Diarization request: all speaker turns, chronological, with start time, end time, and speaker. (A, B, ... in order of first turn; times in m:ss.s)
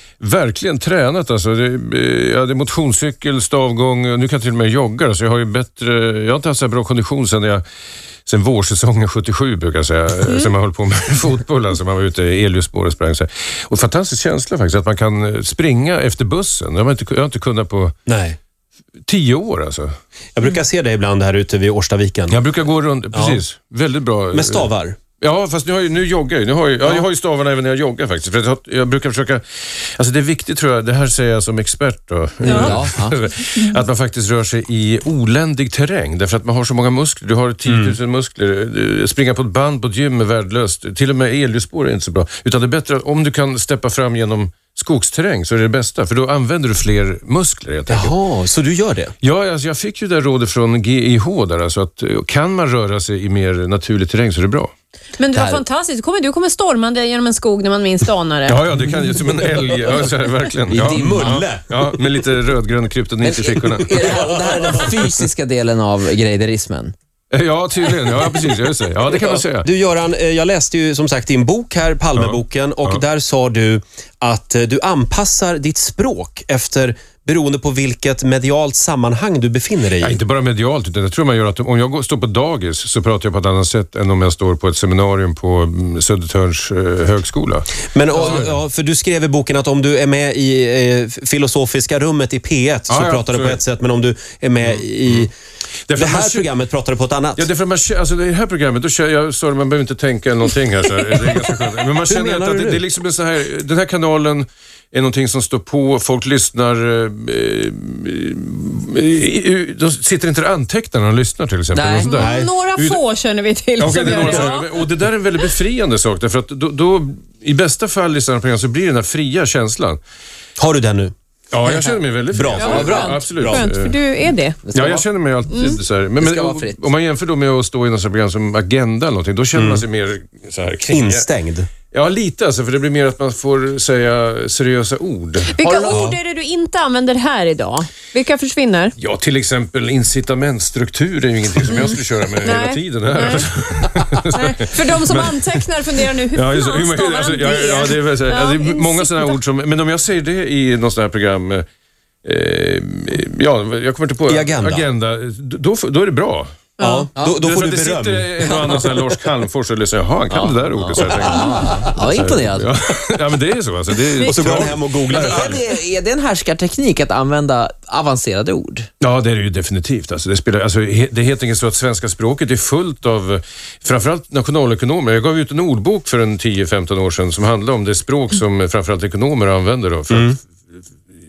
0:00.2-0:07.6 A
0:08.2-0:17.9 A
0:18.1-0:18.4 B
0:19.1-0:19.9 A
0:20.4-0:22.4 B
0:22.3-0:48.2 A
0:23.1-0:23.4 B
0:24.3-0:25.0 B
0:32.4-0:33.2 C
0:32.4-0:32.7 B
0:37.6-0:37.9 B
0:47.9-0:49.1 B
0:49.2-0:54.7 A
0:55.2-0:58.6 D
0:55.3-0:55.6 C
0:58.4-1:04.8 A
1:00.7-1:01.7 B
1:00.8-1:01.4 C
1:03.2-1:06.9 C
1:04.0-1:05.1 B
1:07.3-1:09.7 A
1:09.1-1:20.2 B
1:12.2-1:13.0 A
1:20.0-1:28.6 A
1:27.9-1:35.3 B
1:32.9-1:33.6 A
1:35.9-1:36.5 A
1:35.9-1:37.5 B
1:37.4-1:53.0 A
1:42.1-1:42.8 B
1:51.7-1:52.1 C
1:52.0-1:54.7 D
1:52.1-1:52.5 B
1:53.8-2:00.0 A
2:00.6-2:01.1 B
2:01.5-2:04.0 A
2:01.6-2:02.0 C
2:02.3-2:03.6 B
2:02.6-2:04.6 D
2:02.6-2:03.2 C
2:04.6-2:05.0 C
2:04.7-2:11.3 A
2:05.5-2:05.8 D
2:06.2-2:06.9 C
2:09.5-2:09.8 B
2:10.9-2:11.7 B
2:11.9-2:15.6 A
2:15.5-2:18.9 D
2:15.6-2:16.1 C
2:15.9-2:16.2 B
2:19.0-2:31.6 A
2:21.7-2:23.5 D
2:24.3-2:29.4 D
2:32.2-2:36.7 A
2:34.3-2:34.9 B
2:36.8-2:37.1 D
2:36.8-2:38.9 B
2:37.1-2:37.4 C
2:37.3-2:45.5 A
2:40.3-2:42.7 C
2:44.2-2:45.7 B
2:45.0-2:48.9 C
2:49.0-3:00.4 A
3:00.1-3:00.4 B